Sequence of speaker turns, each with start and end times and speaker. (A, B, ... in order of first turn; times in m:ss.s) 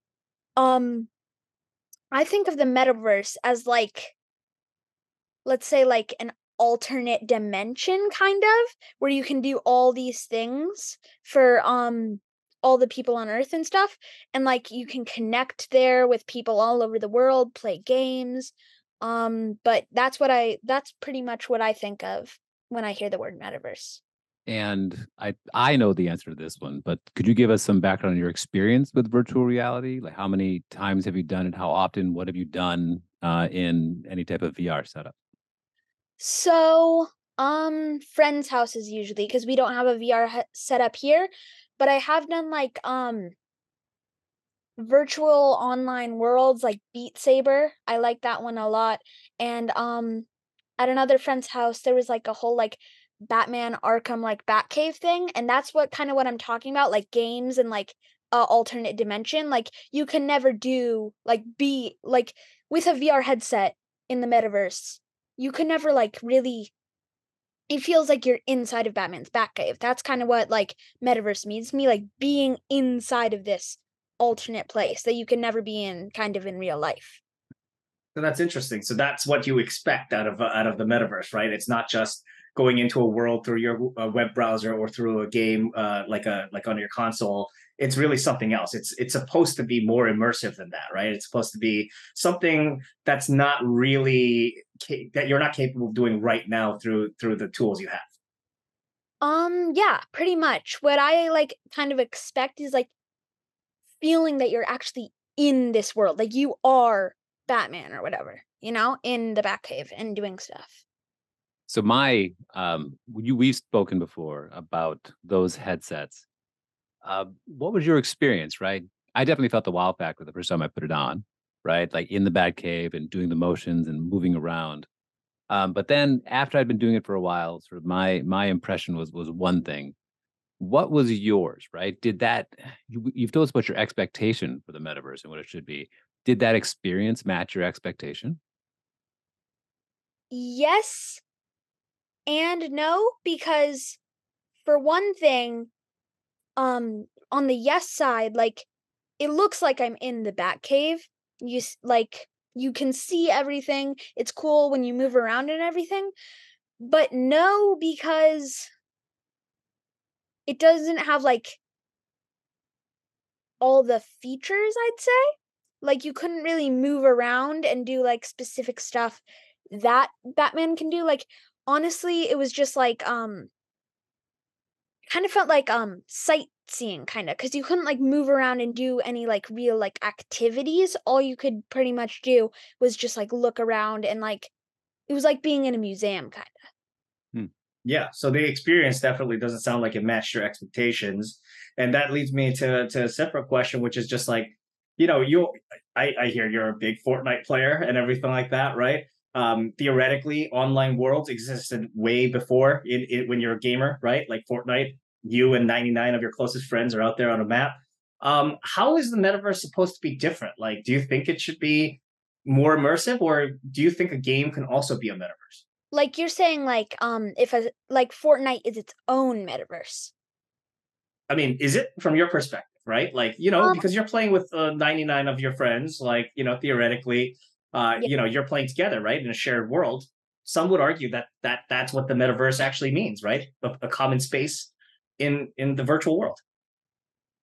0:00.6-0:01.1 A
0:02.1-0:04.1 A
0:05.4-0:24.0 A
0:24.5-0:35.2 B
0:36.2-0:43.4 A
0:44.8-0:50.3 A
0:50.8-1:06.7 A
1:07.7-1:17.2 A
1:18.2-1:38.1 C
1:39.2-1:42.9 A
1:44.0-1:50.8 A
1:51.7-1:56.2 B
1:57.0-2:04.9 B
2:05.5-2:10.0 B
2:10.6-2:18.4 B
2:20.3-2:21.2 A
2:22.3-2:24.0 A
2:24.7-2:25.7 A
2:26.6-2:28.7 A
2:29.2-2:36.1 A
2:36.8-2:38.7 A
2:40.5-2:41.6 A
2:43.6-2:45.3 A
2:45.8-2:53.5 A
2:55.1-3:04.5 A
3:05.1-3:06.6 A
3:07.8-3:35.6 C
3:35.9-3:40.1 A
3:41.3-3:56.4 C